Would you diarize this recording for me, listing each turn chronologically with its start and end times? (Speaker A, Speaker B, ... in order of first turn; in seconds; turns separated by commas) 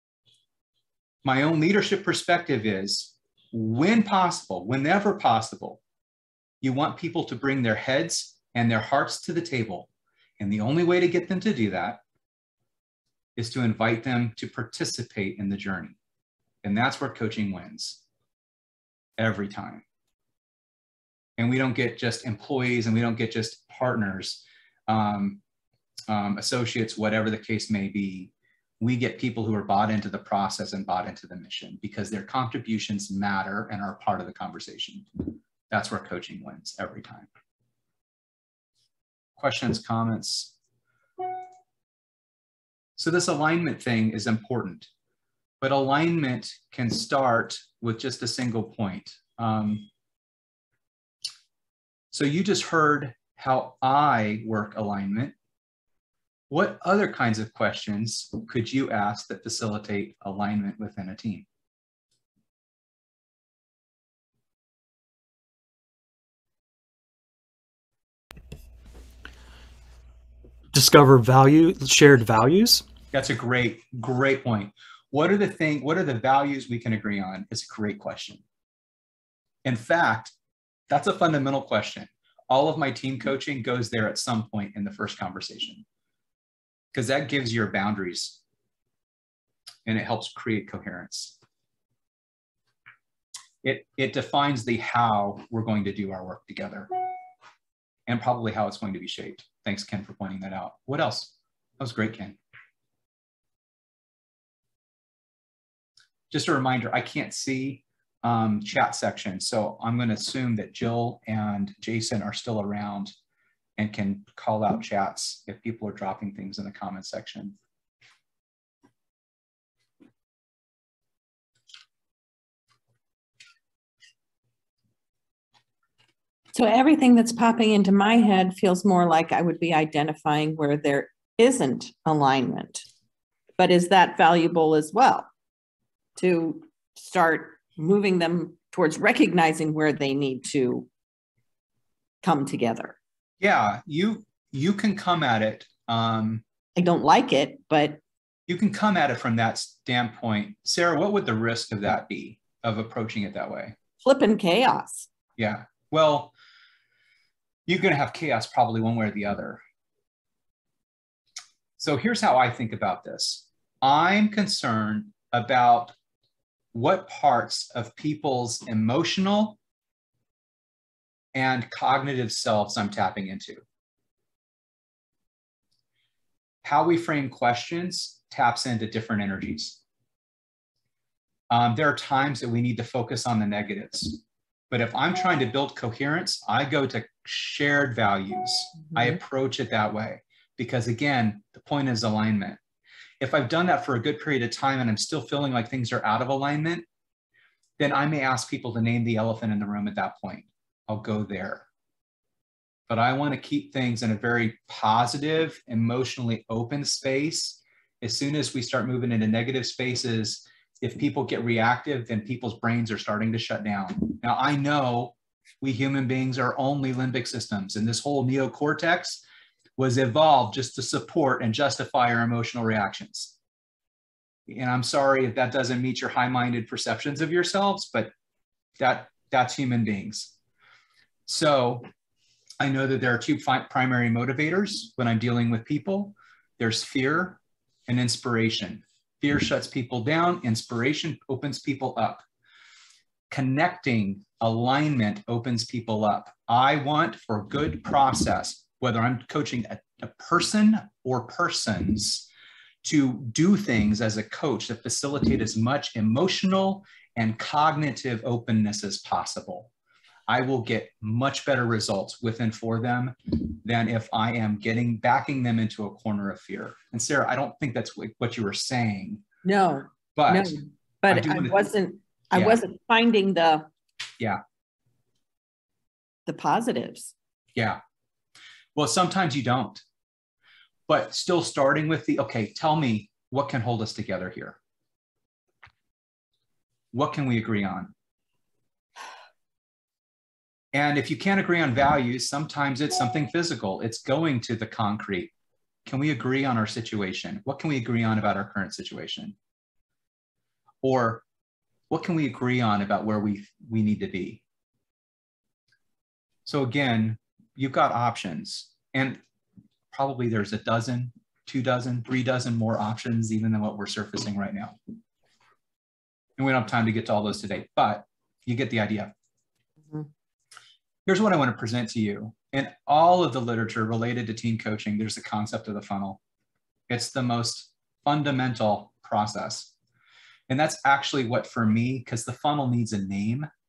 Speaker A: 1.2-5.8, Speaker A: 6.6-9.9, Speaker A: 10.4-12.0, Speaker A: 13.4-15.9, Speaker A: 16.6-18.0, Speaker A: 19.2-19.8, Speaker A: 21.4-25.4, Speaker A: 26.1-37.3, Speaker A: 39.4-40.5, Speaker A: 43.0-44.9, Speaker A: 45.6-49.9, Speaker A: 52.1-55.3, Speaker A: 56.5-61.4, Speaker B: 70.7-72.8, Speaker A: 73.1-78.4, Speaker A: 79.6-80.3, Speaker A: 80.9-85.8, Speaker A: 86.9-88.4, Speaker A: 89.9-91.4, Speaker A: 93.6-96.9, Speaker A: 98.1-102.4, Speaker A: 106.3-113.1, Speaker A: 113.8-117.5, Speaker C: 126.5-132.9, Speaker C: 133.6-135.3, Speaker C: 136.2-140.9, Speaker C: 142.2-143.0, Speaker A: 143.4-146.4, Speaker C: 146.8-148.0, Speaker A: 148.5-153.8, Speaker C: 154.0-155.1, Speaker A: 155.4-156.3, Speaker A: 157.7-159.6, Speaker A: 161.8-165.9, Speaker A: 166.7-169.6, Speaker A: 171.3-173.6, Speaker A: 176.6-179.8, Speaker A: 181.5-192.6, Speaker A: 193.2-196.8, Speaker A: 197.8-201.7, Speaker A: 202.9-219.2, Speaker A: 219.8-223.3, Speaker A: 224.5-228.1, Speaker A: 228.8-230.3, Speaker A: 231.3-231.9, Speaker A: 232.6-242.2, Speaker A: 243.3-252.3, Speaker A: 252.8-259.7, Speaker A: 260.3-269.2, Speaker C: 269.4-273.7, Speaker A: 270.1-270.6, Speaker A: 271.1-271.6, Speaker A: 272.3-272.6, Speaker C: 276.2-277.1, Speaker A: 278.8-279.8, Speaker A: 280.9-284.6, Speaker A: 286.9-287.9, Speaker A: 290.7-295.3, Speaker A: 295.9-299.3, Speaker A: 300.8-301.2, Speaker A: 301.9-304.4, Speaker A: 306.4-309.2, Speaker A: 309.9-314.8, Speaker A: 316.4-319.1, Speaker A: 321.1-326.2, Speaker A: 326.9-329.7, Speaker A: 330.5-333.5